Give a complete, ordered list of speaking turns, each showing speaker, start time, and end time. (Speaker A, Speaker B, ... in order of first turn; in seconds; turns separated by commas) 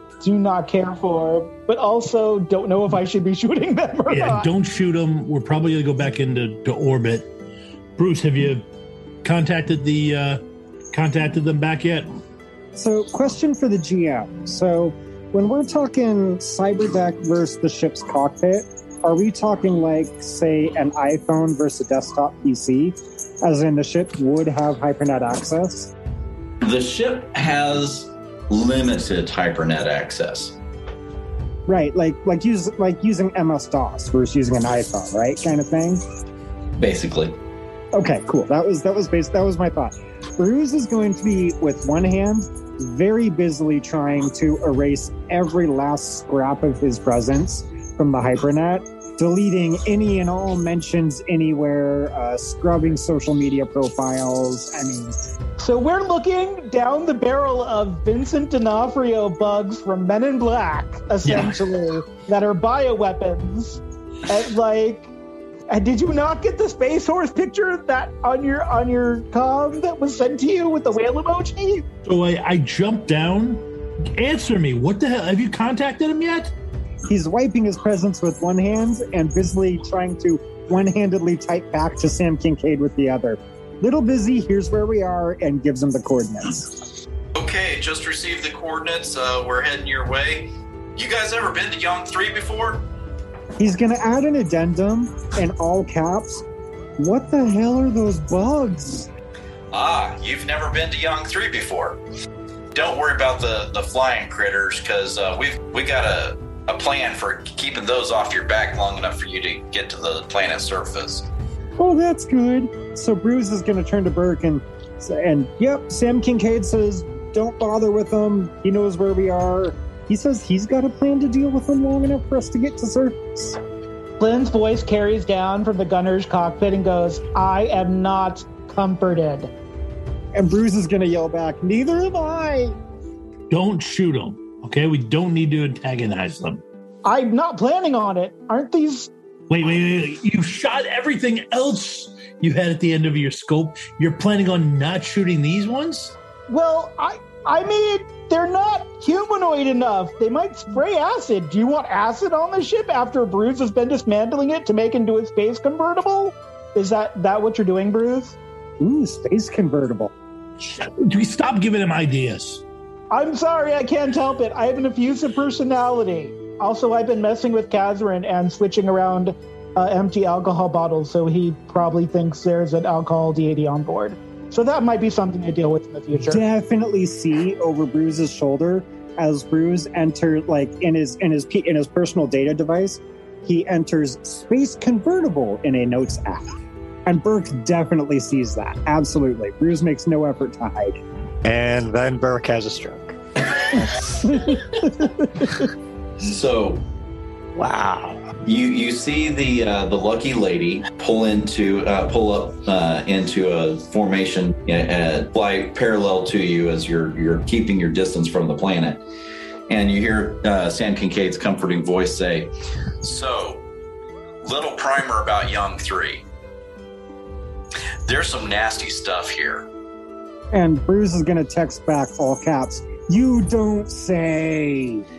Speaker A: 0.2-4.5, Speaker B: 4.1-7.3, Speaker B: 8.0-8.7, Speaker B: 9.2-10.4, Speaker B: 10.9-12.1, Speaker C: 12.8-25.9, Speaker D: 26.6-30.6, Speaker C: 31.7-36.0, Speaker D: 36.8-37.4, Speaker C: 37.9-55.2, Speaker A: 55.6-65.1, Speaker B: 61.2-61.6, Speaker A: 65.7-71.8, Speaker B: 72.1-76.5, Speaker C: 77.1-86.8, Speaker D: 87.3-92.8, Speaker C: 93.6-96.5, Speaker C: 97.0-99.1, Speaker D: 99.7-102.0, Speaker D: 102.7-111.3, Speaker C: 111.8-123.6, Speaker A: 124.2-129.5, Speaker C: 130.3-132.8, Speaker B: 133.5-136.6, Speaker A: 137.1-139.1, Speaker B: 139.5-146.2, Speaker A: 146.5-158.4, Speaker C: 158.8-160.1, Speaker B: 160.6-162.6, Speaker A: 163.1-176.4, Speaker C: 176.2-186.5, Speaker C: 187.1-191.0, Speaker E: 191.4-193.2, Speaker C: 194.2-195.6, Speaker D: 196.2-196.8, Speaker E: 197.6-198.2, Speaker D: 198.4-209.0, Speaker D: 209.7-213.7, Speaker D: 214.4-216.3, Speaker D: 218.1-219.7, Speaker C: 220.5-225.1